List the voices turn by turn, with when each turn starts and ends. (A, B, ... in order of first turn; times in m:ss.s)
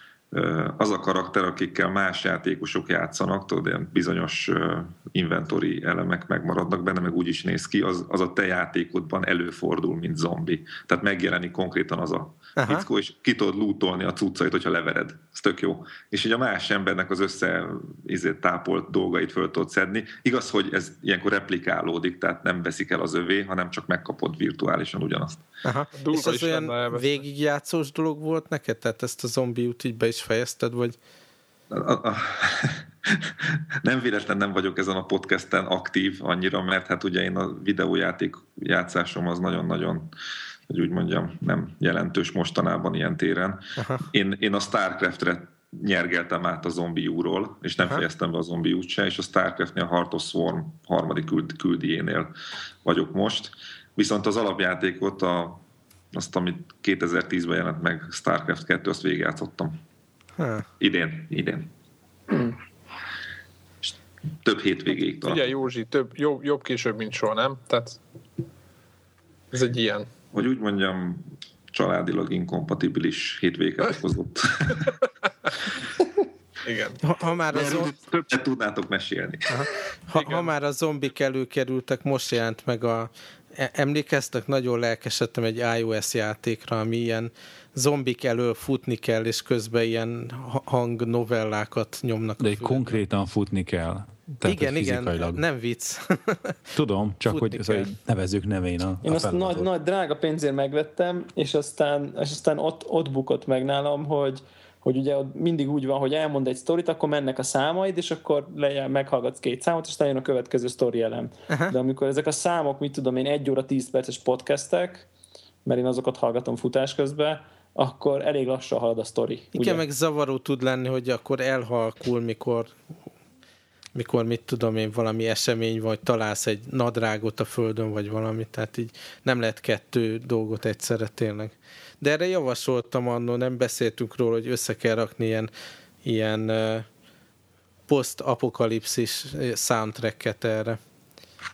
0:00.3-0:25.4 A
0:12.6-0:12.8 B
0:25.6-0:31.0 B
0:26.0-0:27.2 C
0:31.7-0:40.1 A
0:40.7-0:52.3 A
0:43.8-0:44.1 B
0:52.8-0:55.6 A
0:56.1-0:59.8 A
1:00.4-1:00.7 B
1:00.8-1:01.7 A
1:02.3-1:02.6 D
1:04.4-1:05.5 A
1:05.2-1:08.0 C
1:09.5-1:10.1 C
1:10.3-1:14.9 A
1:16.6-1:17.0 C
1:17.0-1:17.9 B
1:17.5-1:19.7 A
1:19.5-1:33.0 B
1:20.1-1:20.5 C
1:32.4-1:35.4 E
1:34.4-1:36.6 B
1:36.8-1:39.7 E
1:37.2-1:37.9 B
1:39.0-1:55.1 D
1:51.5-1:51.7 B
1:55.6-1:59.8 D
1:59.5-2:02.8 B
2:03.9-2:15.5 B
2:16.0-2:16.8 B
2:17.9-2:20.8 B